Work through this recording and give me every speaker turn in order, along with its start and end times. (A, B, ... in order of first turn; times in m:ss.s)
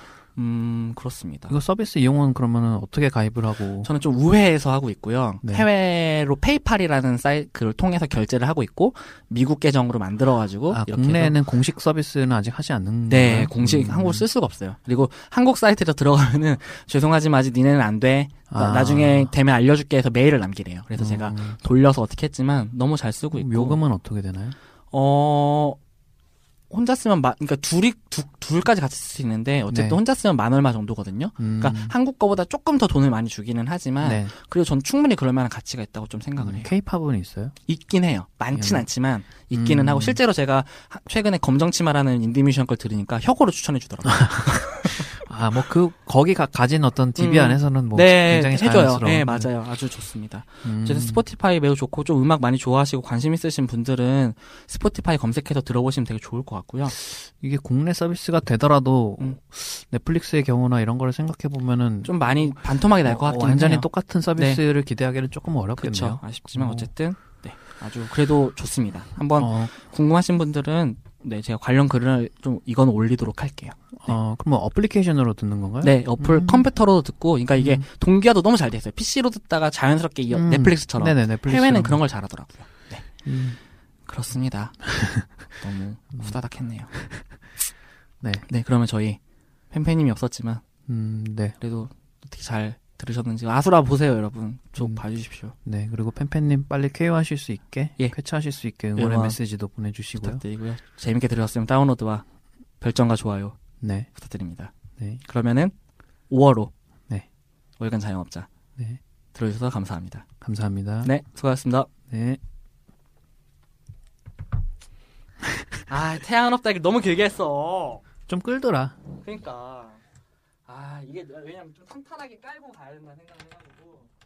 0:00.4-0:01.5 A
0:01.5-0:03.9 B
0:03.8-0:11.4 A
0:10.7-0:14.3 B
0:13.1-0:23.8 A
0:18.5-0:19.3 B
0:21.0-0:21.6 B
0:23.3-0:24.6 B
0:24.9-0:25.8 A
0:26.7-0:36.7 A
0:29.7-0:30.0 B
0:31.4-0:31.9 B
0:34.0-0:34.3 B
0:36.4-0:37.6 B
0:37.7-0:45.1 A
0:38.5-0:38.9 B
0:39.5-0:40.2 B
0:44.0-0:49.5 B
0:47.2-0:57.0 A
0:50.6-0:51.2 B
0:57.0-1:06.9 B
1:02.0-1:04.6 A
1:05.8-1:14.2 A
1:09.4-1:09.7 B
1:14.0-1:16.7 B
1:15.8-1:23.2 A
1:17.6-1:17.8 B
1:20.3-1:22.0 B
1:23.2-1:23.6 B
1:24.1-1:26.9 A
1:25.0-1:25.2 B
1:28.4-1:29.2 A
1:29.7-1:30.6 A
1:30.9-1:31.6 B
1:31.6-1:35.6 A
1:35.6-1:40.4 B
1:39.0-1:39.4 A
1:40.1-1:42.2 A
1:42.8-1:43.6 A
1:43.8-1:44.1 B
1:44.1-1:45.7 A
1:46.3-1:46.7 A
1:47.8-1:48.5 A
1:49.3-1:50.3 A
1:50.4-1:51.1 B
1:51.0-1:51.9 A
1:52.1-1:52.4 B
1:55.9-1:58.0 A
1:58.3-1:59.0 B
1:59.2-2:00.0 A
2:00.7-2:04.1 A